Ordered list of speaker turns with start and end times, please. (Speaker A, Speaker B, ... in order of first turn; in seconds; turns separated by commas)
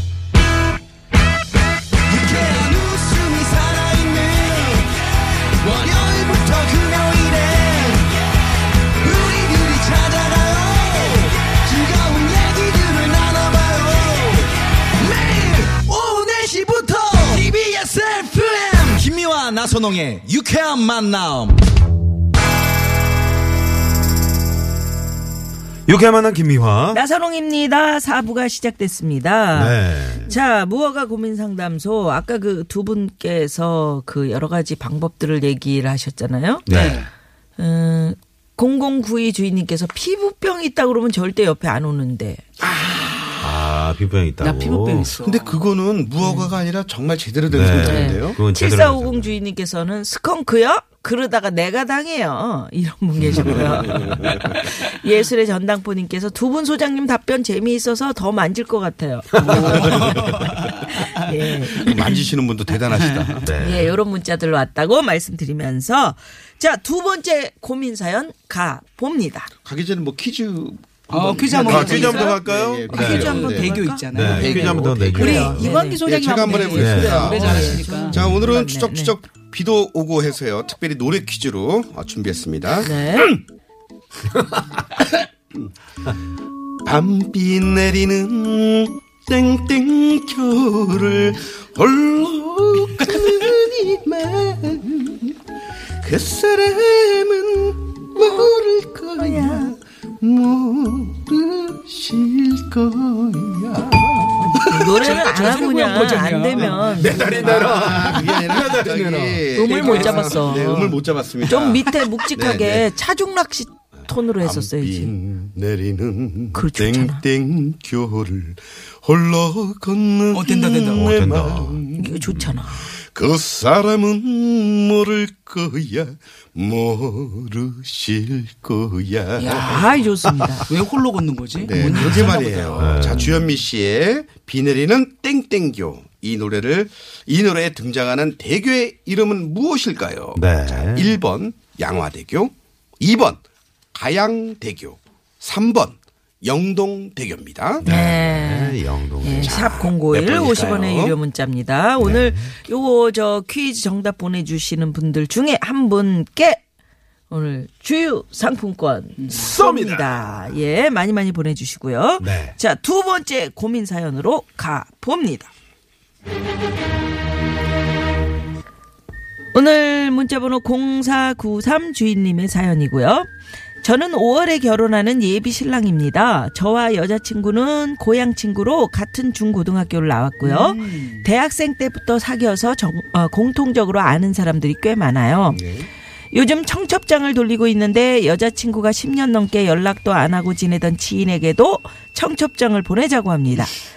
Speaker A: 2.1-4.9, Speaker A: 5.6-8.1, Speaker A: 9.0-21.6, Speaker B: 25.9-27.0, Speaker C: 26.9-36.7, Speaker B: 29.5-30.3, Speaker B: 36.7-37.1, Speaker D: 36.7-37.1, Speaker C: 37.6-42.4, Speaker E: 42.9-43.4, Speaker B: 43.4-45.1, Speaker D: 44.4-45.6, Speaker E: 45.2-48.4, Speaker C: 46.2-46.5, Speaker B: 47.5-49.4, Speaker C: 47.8-62.0, Speaker B: 53.2-54.4, Speaker D: 59.4-62.1, Speaker E: 61.7-63.5, Speaker D: 62.9-63.4, Speaker B: 63.4-63.9, Speaker C: 63.6-69.5, Speaker E: 69.6-75.5, Speaker D: 71.1-78.2, Speaker B: 71.5-73.5, Speaker C: 72.9-79.2, Speaker B: 74.0-75.7, Speaker E: 76.0-83.4, Speaker B: 76.7-78.5, Speaker C: 82.8-83.3, Speaker E: 86.8-95.3, Speaker E: 96.0-105.1, Speaker C: 99.2-99.7, Speaker C: 104.7-107.5, Speaker D: 104.7-107.7, Speaker E: 106.9-112.9, Speaker B: 107.0-109.5, Speaker C: 109.5-115.1, Speaker D: 109.6-111.0, Speaker E: 114.4-122.3, Speaker C: 116.5-117.2, Speaker D: 120.3-121.1, Speaker B: 121.0-122.5, Speaker C: 122.0-122.9, Speaker E: 123.0-129.9, Speaker D: 129.4-129.9, Speaker C: 129.5-130.7, Speaker D: 130.6-133.1, Speaker E: 131.6-143.4, Speaker B: 131.9-133.5, Speaker B: 140.3-141.2, Speaker E: 143.9-147.9, Speaker B: 147.8-149.7, Speaker C: 147.8-156.6, Speaker E: 149.4-151.2, Speaker B: 152.0-152.6, Speaker C: 157.3-165.5, Speaker D: 159.2-159.5, Speaker B: 159.3-160.5, Speaker B: 162.2-162.6, Speaker C: 169.5-173.3, Speaker C: 173.8-185.6, Speaker D: 180.4-181.3, Speaker E: 185.5-185.9, Speaker C: 186.3-193.8